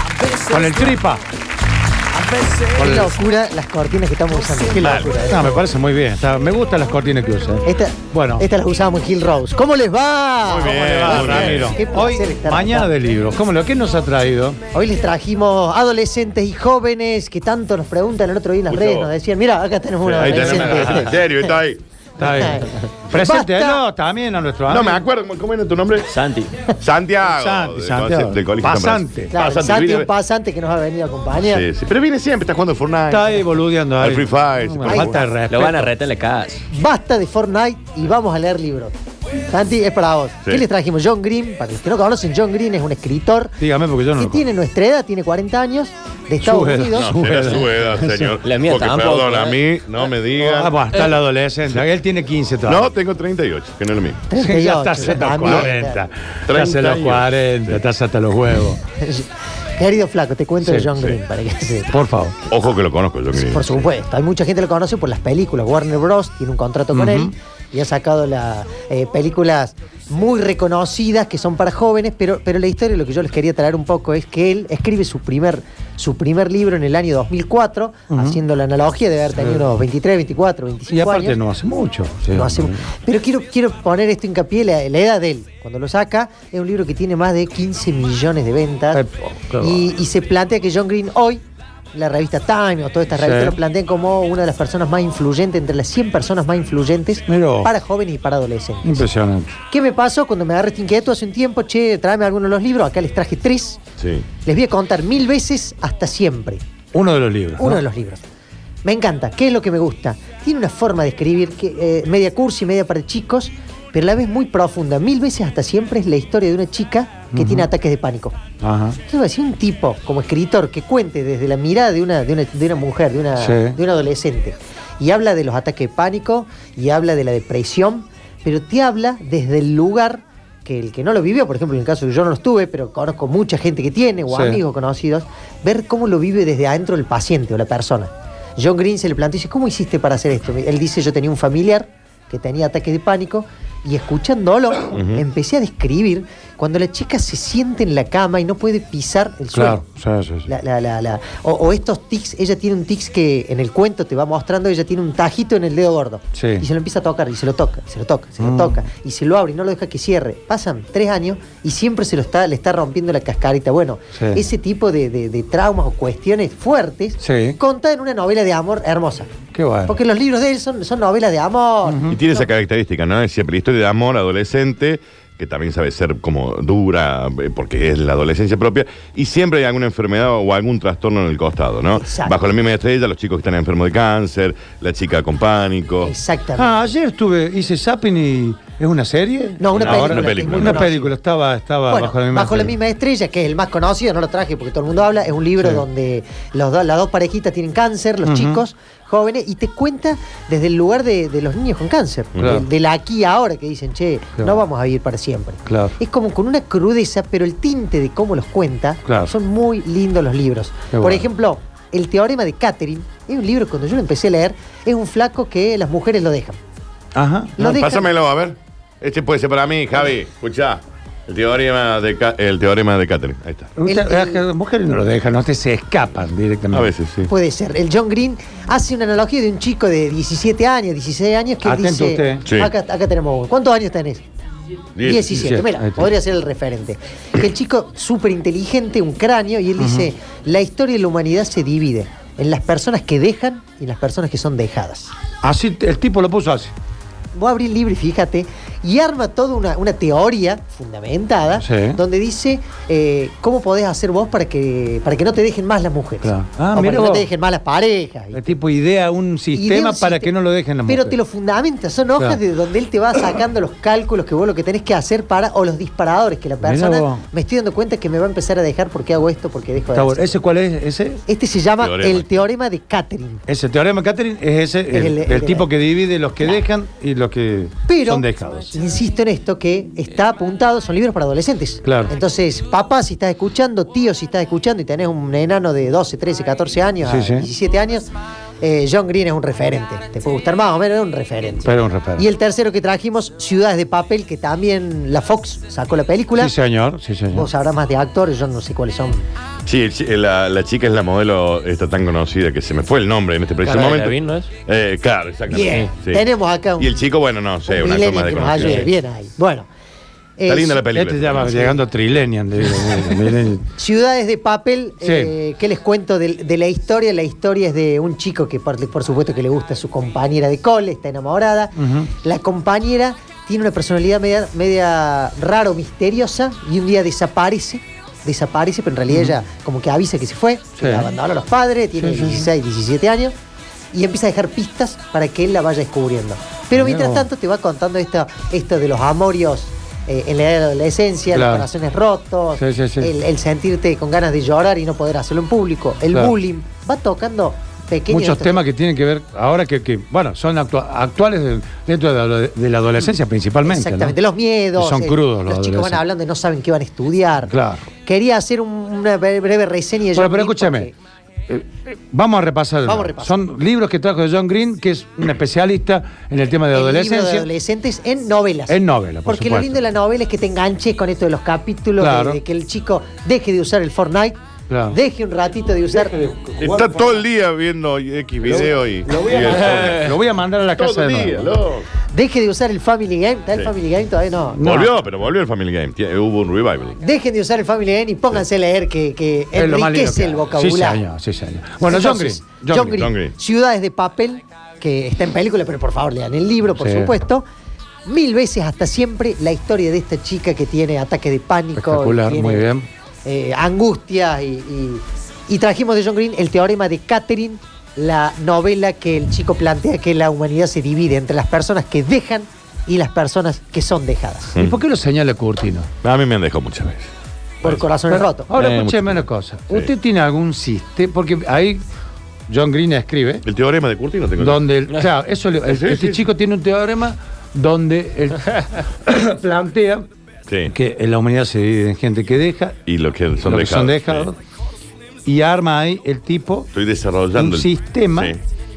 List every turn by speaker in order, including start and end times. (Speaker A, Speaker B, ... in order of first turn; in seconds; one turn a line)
Speaker A: 0.4-1.2
Speaker B: 2.5-5.5
Speaker A: 2.7-3.1
Speaker C: 4.8-5.1
Speaker A: 5.1-8.5
Speaker B: 7.6-12.9
Speaker C: 10.4-11.8
Speaker A: 10.6-14.6
Speaker B: 14.7-21.5
Speaker C: 18.7-19.1
Speaker C: 20.0-21.8
Speaker A: 20.2-21.1
Speaker A: 22.2-25.0
Speaker B: 22.2-23.8
Speaker C: 24.7-26.1
Speaker D: 26.1-26.5
Speaker C: 26.7-30.1
Speaker A: 27.2-29.3
Speaker B: 29.3-31.6
Speaker C: 31.4-33.4
Speaker A: 33.1-35.9
Speaker C: 34.0-35.1
Speaker B: 34.9-35.3
Speaker D: 35.5-36.6
Speaker B: 36.7-38.9
Speaker B: 39.5-43.5
Speaker A: 43.6-44.4
Speaker B: 44.1-47.1
Speaker A: 46.4-48.3
Speaker C: 46.9-50.8
Speaker D: 48.4-49.6
Speaker A: 50.4-52.9
Speaker C: 52.6-54.2
Speaker B: 54.3-56.0
Speaker A: 54.4-58.8
Speaker C: 55.4-55.7
Speaker C: 56.5-57.8
Speaker B: 59.0-61.9
Speaker A: 60.6-60.9
Speaker A: 61.9-62.4
Speaker C: 62.5-63.8
Speaker B: 63.3-81.4
Speaker A: 66.9-67.3
Speaker A: 78.1-78.4
Speaker A: 80.9-82.8
Speaker B: 82.3-91.4
Speaker A: 88.9-89.8
Speaker B: 91.9-99.0
Speaker A: 93.1-93.5
Speaker A: 97.3-97.7
Speaker A: 98.8-99.5
Speaker B: 99.7-103.8
Speaker C: 104.0-104.2
Speaker B: 104.4-106.6
Speaker A: 106.9-107.8
Speaker B: 107.6-108.2
Speaker B: 108.8-118.4
Speaker A: 117.3-117.7
Speaker A: 118.6-119.0
Speaker B: 119.1-149.8
Speaker A: 123.4-123.8
Speaker A: 134.3-134.6
Speaker C: 144.9-145.2
Speaker A: 149.5-150.5
Speaker B: 150.5-169.3
Speaker A: 156.3-156.7
Speaker A: 158.4-158.8
Speaker A: 164.1-164.4
Speaker A: 167.2-167.6
Speaker A: 169.5-169.9
Speaker B: 169.9-172.5
Speaker A: 171.8-172.1
Speaker C: 172.1-186.1
Speaker B: 181.9-182.3
Speaker B: 186.0-186.8
Speaker A: 186.6-192.7
Speaker B: 189.6-191.2
Speaker C: 189.8-190.8
Speaker B: 191.9-216.6
Speaker A: 195.6-195.8
Speaker A: 198.2-198.6
Speaker C: 202.3-202.6
Speaker A: 202.4-202.6
Speaker A: 205.7-205.9
Speaker A: 209.0-209.3
Speaker A: 210.9-211.2
Speaker A: 217.1-217.5
Speaker B: 217.6-218.0
Speaker C: 217.6-223.7
Speaker A: 223.8-226.9
Speaker B: 223.8-224.4
Speaker C: 226.7-227.3
Speaker B: 227.3-234.2
Speaker A: 231.6-232.4
Speaker C: 232.4-232.7
Speaker C: 234.9-235.3
Speaker B: 235.0-245.1
Speaker A: 235.3-236.1
Speaker A: 239.8-240.1
Speaker A: 245.4-246.7
Speaker B: 247.3-258.6
Speaker A: 251.6-252.0
Speaker A: 256.2-257.3
Speaker A: 258.3-261.2
Speaker B: 259.5-260.3
Speaker B: 260.9-270.4
Speaker A: 266.6-267.2
Speaker A: 269.9-271.2
Speaker B: 271.3-273.4
Speaker C: 271.8-272.4
Speaker A: 273.5-278.8
Speaker B: 274.9-275.7
Speaker B: 277.9-288.1
Speaker A: 281.8-282.1
Speaker A: 287.0-287.4
Speaker B: 288.6-296.5
Speaker A: 291.6-292.2
Speaker A: 296.4-297.5
Speaker B: 297.3-299.2
Speaker C: 299.6-306.2
Speaker D: 303.6-304.5
Speaker B: 305.5-306.9
Speaker C: 306.8-308.9
Speaker B: 307.7-309.7
Speaker D: 308.5-308.9
Speaker B: 310.4-310.8
Speaker C: 310.5-311.8
Speaker A: 310.9-313.6
Speaker B: 313.8-333.3
Speaker A: 315.0-315.3
Speaker A: 321.8-322.1
Speaker A: 330.8-331.1
Speaker A: 332.0-332.5
Speaker B: 333.9-348.6
Speaker A: 336.8-337.2
Speaker A: 341.3-341.7
Speaker A: 342.6-343.1
Speaker A: 348.1-354.1
Speaker B: 353.6-360.9
Speaker A: 354.8-356.0
Speaker A: 357.5-357.9
Speaker A: 360.1-360.9
Speaker A: 361.5-367.5
Speaker B: 362.8-363.4
Speaker B: 366.7-374.4
Speaker A: 368.7-369.8
Speaker A: 372.0-372.4
Speaker A: 374.7-375.0
Speaker B: 374.9-376.1
Speaker A: 375.9-377.2
Speaker C: 376.6-380.1
Speaker A: 378.4-381.5
Speaker C: 380.7-381.9
Speaker B: 382.1-384.6
Speaker A: 384.6-384.9
Speaker C: 384.6-387.0
Speaker B: 387.0-391.0
Speaker A: 389.5-393.1
Speaker B: 391.8-397.4
Speaker C: 392.9-393.3
Speaker A: 396.7-397.1
Speaker B: 398.1-402.7
Speaker A: 401.8-402.9
Speaker B: 403.2-414.6
Speaker A: 414.6-415.9
Speaker C: 416.0-417.1
Speaker B: 417.6-418.5
Speaker A: 418.1-421.8
Speaker D: 418.6-418.8
Speaker C: 418.6-419.9
Speaker A: 422.5-423.4
Speaker C: 423.4-424.6
Speaker A: 424.4-430.1
Speaker C: 425.6-426.2
Speaker C: 430.5-430.7
Speaker A: 430.7-432.8
Speaker C: 432.9-434.3
Speaker A: 433.4-434.4
Speaker A: 435.2-436.7
Speaker C: 436.7-438.4
Speaker A: 437.3-438.4